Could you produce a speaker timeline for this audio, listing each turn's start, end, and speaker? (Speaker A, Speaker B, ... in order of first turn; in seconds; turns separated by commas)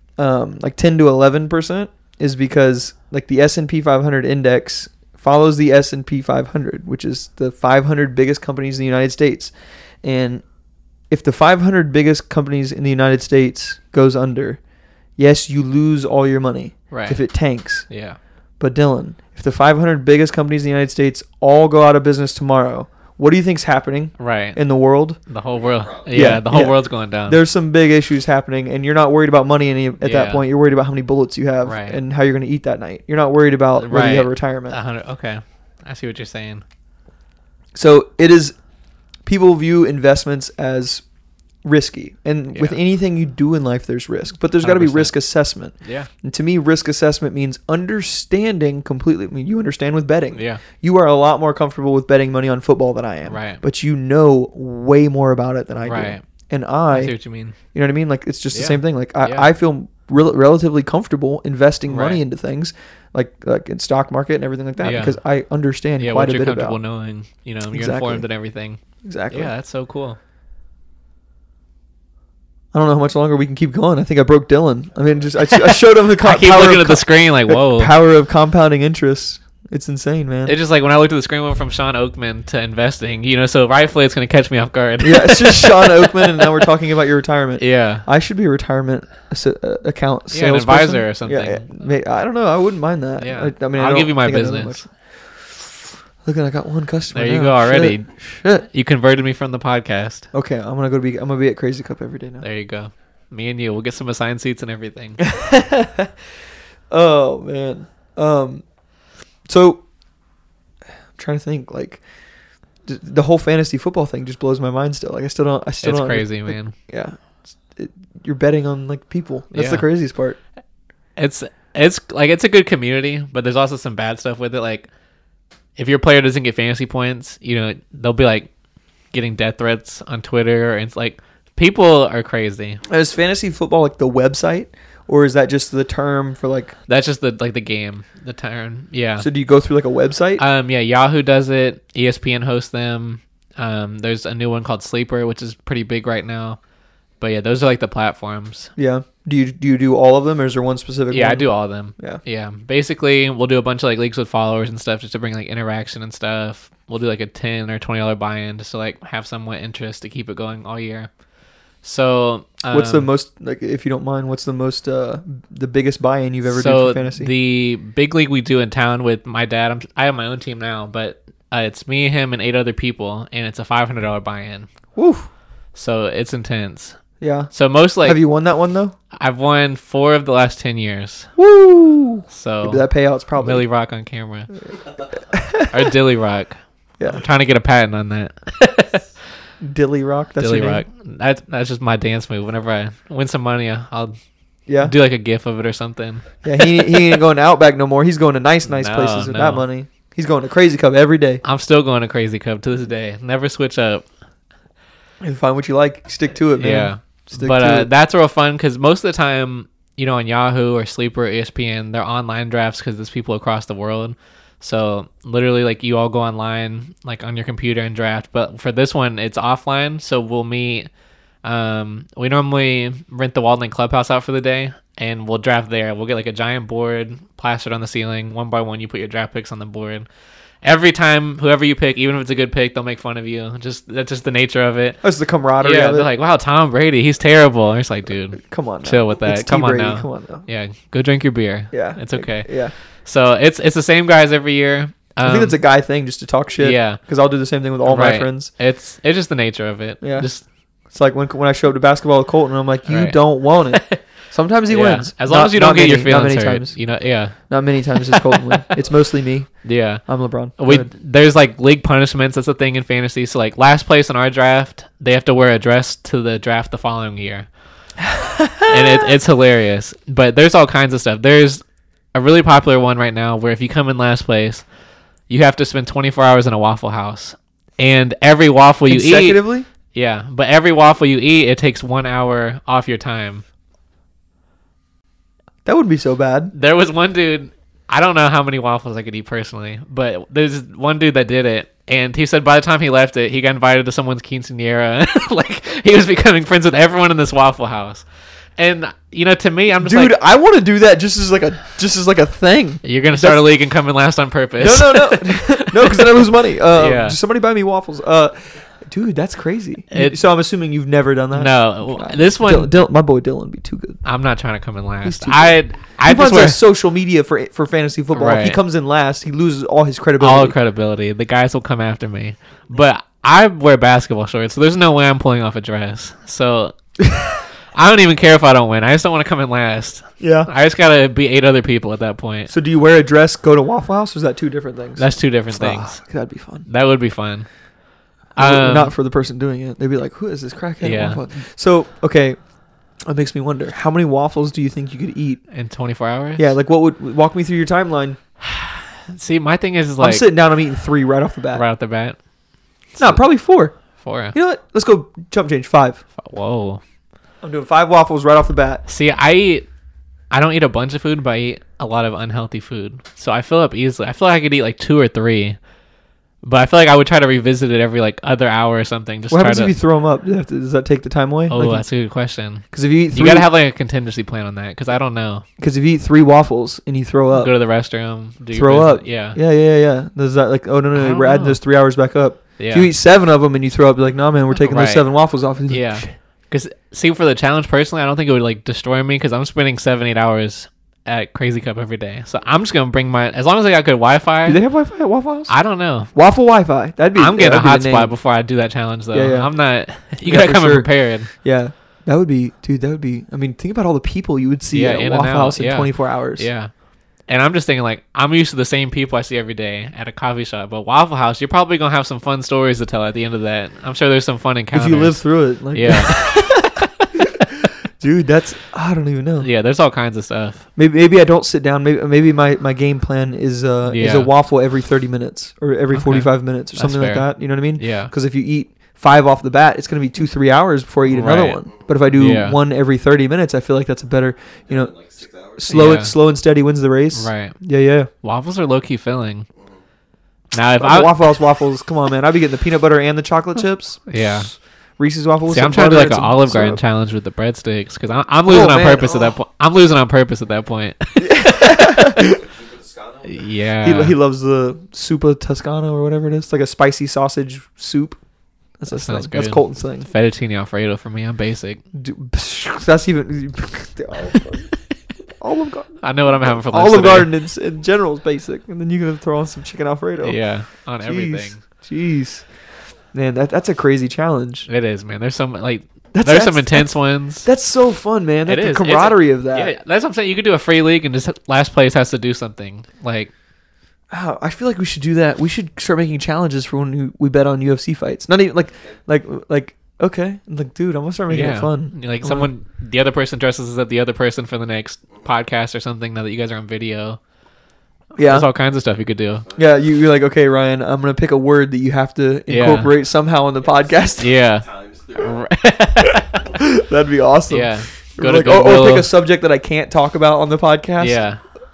Speaker A: 0.2-9.5, Speaker A: 10.0-10.4, Speaker A: 11.1-14.6, Speaker A: 15.2-17.9, Speaker B: 16.9-17.2, Speaker B: 17.9-18.2, Speaker A: 18.6-25.2, Speaker B: 24.2-24.6, Speaker B: 25.3-27.4, Speaker C: 25.5-26.3, Speaker A: 26.1-34.8, Speaker B: 30.0-30.4, Speaker B: 31.6-32.0, Speaker B: 33.8-36.6, Speaker A: 37.8-38.6, Speaker A: 39.2-41.0, Speaker A: 41.6-57.1, Speaker B: 44.6-45.1, Speaker B: 45.8-46.1, Speaker B: 50.3-50.6, Speaker B: 53.3-53.6, Speaker B: 55.9-56.2, Speaker B: 56.9-57.6, Speaker A: 57.7-66.8, Speaker B: 58.5-59.5, Speaker B: 61.9-62.2, Speaker B: 64.8-65.2, Speaker B: 66.0-70.2, Speaker A: 67.7-68.3, Speaker A: 69.0-69.5, Speaker A: 72.7-80.5, Speaker B: 76.2-77.9, Speaker B: 80.5-86.5, Speaker A: 85.0-95.5, Speaker B: 87.6-88.1, Speaker B: 90.3-91.7, Speaker B: 93.2-94.8, Speaker A: 96.2-98.7, Speaker B: 97.1-98.1, Speaker B: 98.7-100.3, Speaker A: 100.3-102.5, Speaker B: 102.4-105.2, Speaker A: 105.2-106.1, Speaker A: 106.9-108.6, Speaker A: 109.5-109.8, Speaker A: 111.2-112.0, Speaker A: 112.8-117.2, Speaker B: 115.8-116.8, Speaker A: 117.8-120.4, Speaker B: 119.5-119.9, Speaker B: 121.2-124.9, Speaker B: 125.8-128.5, Speaker B: 129.1-132.8, Speaker A: 132.9-136.7, Speaker B: 136.9-139.3, Speaker A: 139.2-140.4, Speaker B: 140.4-146.6, Speaker B: 147.2-148.7, Speaker A: 148.8-152.2, Speaker B: 151.1-161.1, Speaker B: 161.8-163.1, Speaker A: 162.7-167.3, Speaker B: 166.4-174.7, Speaker A: 174.9-175.3, Speaker B: 175.8-177.0, Speaker A: 177.2-177.5, Speaker B: 177.5-178.2, Speaker A: 178.0-179.0, Speaker B: 179.1-181.3, Speaker A: 181.4-183.7, Speaker B: 182.3-182.8, Speaker B: 183.4-184.5, Speaker A: 185.3-185.9, Speaker B: 185.7-189.1, Speaker A: 189.6-190.8, Speaker B: 190.4-194.2, Speaker A: 194.7-194.9, Speaker B: 194.8-197.0, Speaker A: 196.4-201.4, Speaker B: 198.7-199.6, Speaker B: 201.4-204.1, Speaker A: 205.2-207.9, Speaker B: 206.6-220.9, Speaker B: 221.4-230.1, Speaker B: 230.6-235.0, Speaker A: 235.0-236.1, Speaker B: 235.6-242.5, Speaker A: 238.4-240.4, Speaker A: 241.7-242.7, Speaker B: 243.1-245.6, Speaker A: 245.2-248.5, Speaker B: 246.6-247.0, Speaker B: 247.8-250.4, Speaker A: 250.0-250.3, Speaker A: 250.9-256.8, Speaker B: 252.8-254.0, Speaker B: 254.7-257.4, Speaker A: 257.5-259.5, Speaker B: 258.0-258.8, Speaker B: 259.6-260.1, Speaker A: 260.1-260.9, Speaker B: 260.6-267.5, Speaker A: 268.1-269.1, Speaker B: 268.6-271.6, Speaker B: 272.1-274.6, Speaker B: 275.3-283.4, Speaker A: 278.9-279.7, Speaker A: 285.6-286.5, Speaker B: 286.5-298.1, Speaker B: 298.6-300.1, Speaker A: 299.8-303.4, Speaker B: 302.8-306.2, Speaker A: 304.6-314.0, Speaker B: 306.7-307.2, Speaker B: 309.9-310.2, Speaker B: 311.3-312.7, Speaker B: 314.1-316.6, Speaker A: 315.1-320.6, Speaker B: 318.1-318.6, Speaker B: 320.2-326.8, Speaker A: 327.0-327.4, Speaker B: 327.7-332.5, Speaker A: 330.2-330.5, Speaker A: 332.5-336.7, Speaker B: 335.0-336.0, Speaker B: 336.7-337.5, Speaker B: 338.4-338.9, Speaker A: 338.4-342.4, Speaker B: 340.8-341.2, Speaker A: 343.1-345.4, Speaker B: 345.5-346.5, Speaker A: 346.4-348.2, Speaker B: 348.4-350.3, Speaker A: 350.0-351.6, Speaker B: 351.5-352.2, Speaker B: 352.9-353.2, Speaker A: 353.0-353.8, Speaker B: 354.0-354.4, Speaker A: 354.3-356.0, Speaker B: 356.2-356.8, Speaker A: 357.4-358.8, Speaker B: 358.9-359.7, Speaker B: 360.3-365.6, Speaker B: 366.4-369.7, Speaker A: 369.3-371.8, Speaker B: 371.5-375.4, Speaker A: 372.7-373.5, Speaker A: 375.6-377.5, Speaker B: 377.3-379.4, Speaker A: 378.5-386.1, Speaker B: 380.9-381.6, Speaker B: 382.6-382.9, Speaker B: 384.6-385.1, Speaker B: 385.7-394.6, Speaker A: 394.5-395.5, Speaker B: 395.5-396.1, Speaker A: 396.1-398.1, Speaker B: 397.1-401.3, Speaker A: 399.1-399.5, Speaker A: 400.2-406.5, Speaker B: 404.7-406.7, Speaker B: 407.3-417.5, Speaker A: 414.7-419.5, Speaker B: 419.4-420.7, Speaker A: 420.8-434.9, Speaker B: 423.9-424.3, Speaker B: 425.9-428.1, Speaker B: 431.1-432.6, Speaker C: 434.7-436.0, Speaker A: 435.6-438.1, Speaker B: 435.7-436.1, Speaker B: 437.1-437.6, Speaker B: 438.2-439.5, Speaker B: 440.5-441.2, Speaker A: 440.8-444.5, Speaker B: 444.1-444.5, Speaker A: 445.0-446.8, Speaker B: 445.5-451.9, Speaker A: 448.5-449.4, Speaker A: 451.2-452.4, Speaker C: 452.0-453.5, Speaker B: 453.2-454.2, Speaker A: 453.8-458.2, Speaker A: 458.8-460.1, Speaker B: 458.9-461.8, Speaker A: 461.9-464.7, Speaker A: 465.4-470.4, Speaker B: 466.0-467.3, Speaker B: 470.2-471.6, Speaker A: 471.0-472.4, Speaker A: 473.1-474.7, Speaker B: 474.7-477.5, Speaker A: 476.1-479.7, Speaker B: 478.5-483.3, Speaker A: 484.1-492.5, Speaker B: 491.3-497.2, Speaker A: 498.2-498.5, Speaker B: 498.2-499.5, Speaker C: 499.5-499.8, Speaker A: 499.6-504.3, Speaker B: 502.5-502.9, Speaker C: 503.6-505.5, Speaker B: 504.2-506.5, Speaker A: 506.5-511.2, Speaker B: 507.5-509.1, Speaker B: 511.0-511.4